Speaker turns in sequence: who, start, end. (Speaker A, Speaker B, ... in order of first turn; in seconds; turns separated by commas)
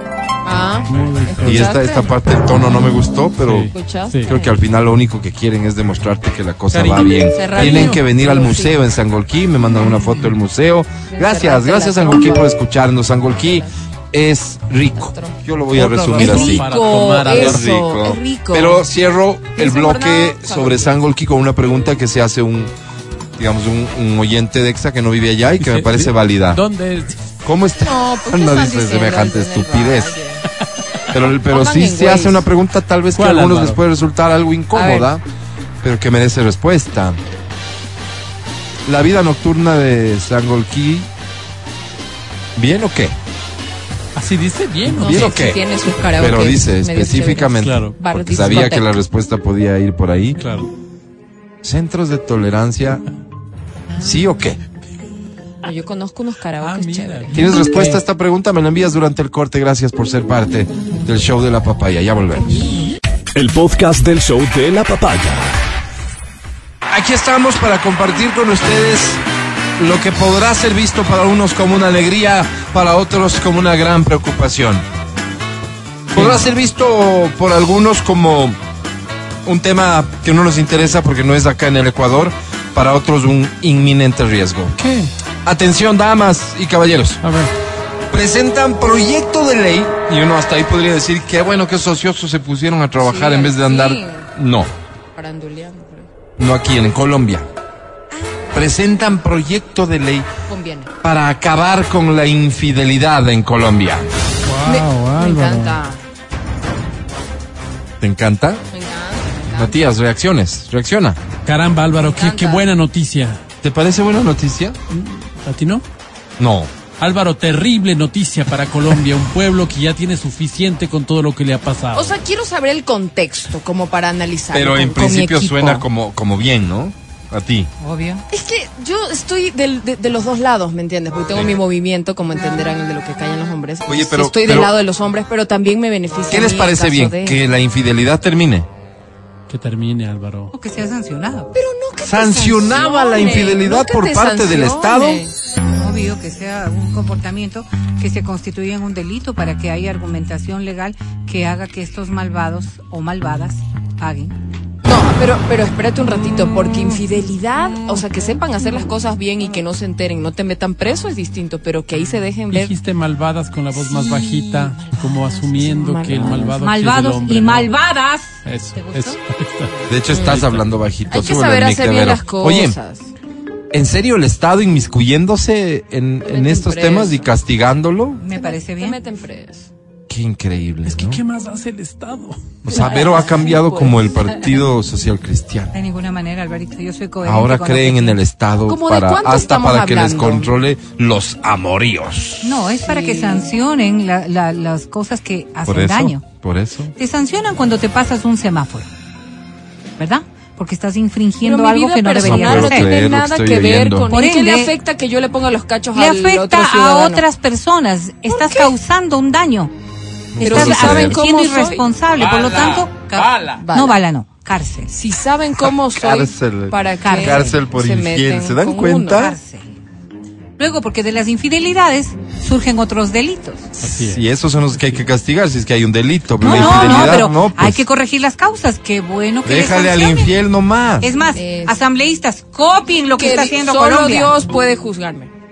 Speaker A: 0.5-2.2, Speaker B: 0.9-1.7, Speaker C: 1.4-3.7, Speaker B: 3.4-4.3, Speaker A: 3.7-4.6, Speaker C: 4.3-16.7, Speaker B: 6.7-8.0, Speaker A: 7.3-8.9, Speaker A: 11.1-12.6, Speaker A: 13.3-13.7, Speaker A: 14.9-15.4, Speaker B: 15.8-17.7, Speaker A: 16.1-18.9, Speaker C: 17.3-22.7, Speaker A: 19.6-21.0, Speaker C: 23.4-26.6, Speaker B: 25.6-27.3, Speaker C: 27.4-30.2, Speaker A: 27.8-30.4, Speaker C: 31.1-35.2, Speaker A: 31.3-32.5, Speaker B: 33.1-33.8, Speaker A: 34.7-35.1, Speaker C: 35.8-37.2, Speaker C: 38.9-41.1, Speaker C: 42.6-43.1, Speaker B: 44.1-45.4, Speaker C: 44.9-45.6, Speaker A: 45.0-49.0, Speaker C: 46.1-50.4, Speaker B: 47.6-48.6, Speaker B: 50.4-50.7, Speaker C: 51.6-53.0, Speaker C: 54.0-54.6, Speaker A: 55.6-57.4, Speaker B: 56.6-58.0, Speaker C: 57.3-62.7, Speaker D: 63.4-65.5, Speaker C: 66.9-69.2, Speaker C: 69.8-74.8, Speaker B: 76.1-76.5, Speaker C: 76.1-78.6, Speaker C: 79.5-84.8, Speaker B: 84.8-85.1, Speaker C: 85.5-87.2, Speaker B: 87.2-87.5, Speaker C: 88.1-94.7, Speaker A: 93.0-94.3, Speaker A: 95.2-96.1, Speaker C: 96.4-97.5, Speaker C: 98.5-100.3, Speaker A: 100.5-100.9, Speaker C: 101.0-104.1, Speaker B: 104.5-105.8, Speaker A: 104.7-106.0, Speaker C: 108.0-108.6, Speaker A: 108.7-109.9, Speaker C: 109.5-111.2, Speaker B: 111.5-113.4, Speaker A: 112.0-112.7, Speaker C: 113.6-114.8, Speaker B: 114.9-115.8, Speaker C: 116.4-116.7, Speaker B: 117.0-122.1, Speaker A: 122.0-125.8, Speaker C: 124.5-127.7, Speaker E: 127.8-128.2, Speaker A: 128.3-137.4, Speaker C: 133.9-134.7, Speaker C: 136.3-138.7, Speaker B: 139.5-140.5, Speaker E: 140.5-141.5, Speaker A: 141.5-145.3, Speaker C: 142.1-145.2, Speaker E: 145.8-154.3, Speaker A: 154.8-162.7, Speaker B: 162.5-167.7, Speaker A: 163.8-166.6, Speaker E: 166.6-169.2, Speaker B: 168.4-170.6, Speaker C: 169.9-172.8, Speaker A: 170.1-170.5, Speaker A: 171.1-173.1, Speaker C: 173.7-178.2, Speaker A: 176.2-177.3, Speaker E: 178.2-179.0, Speaker A: 178.3-179.7, Speaker C: 180.1-181.2, Speaker B: 180.9-182.5, Speaker C: 182.6-185.7, Speaker A: 182.7-184.6, Speaker E: 185.7-188.2, Speaker C: 187.2-192.6, Speaker A: 188.7-190.6, Speaker E: 192.4-196.3, Speaker A: 192.9-193.5, Speaker C: 195.7-196.9, Speaker E: 197.0-198.9, Speaker E: 200.0-202.9, Speaker A: 201.4-207.2, Speaker C: 202.2-204.1, Speaker E: 204.1-204.7, Speaker E: 205.9-209.7, Speaker A: 208.3-208.7, Speaker C: 210.3-211.2, Speaker E: 210.4-214.9, Speaker A: 210.4-211.8, Speaker B: 212.2-213.6, Speaker A: 213.6-214.0, Speaker A: 214.9-219.3, Speaker C: 215.9-219.3, Speaker E: 217.0-217.6, Speaker E: 219.1-219.7, Speaker E: 220.6-223.7, Speaker C: 223.8-227.8, Speaker B: 223.8-225.0, Speaker E: 226.4-230.3, Speaker A: 226.5-227.1, Speaker C: 229.4-231.1, Speaker E: 231.0-234.3, Speaker A: 231.3-231.8, Speaker A: 233.2-235.3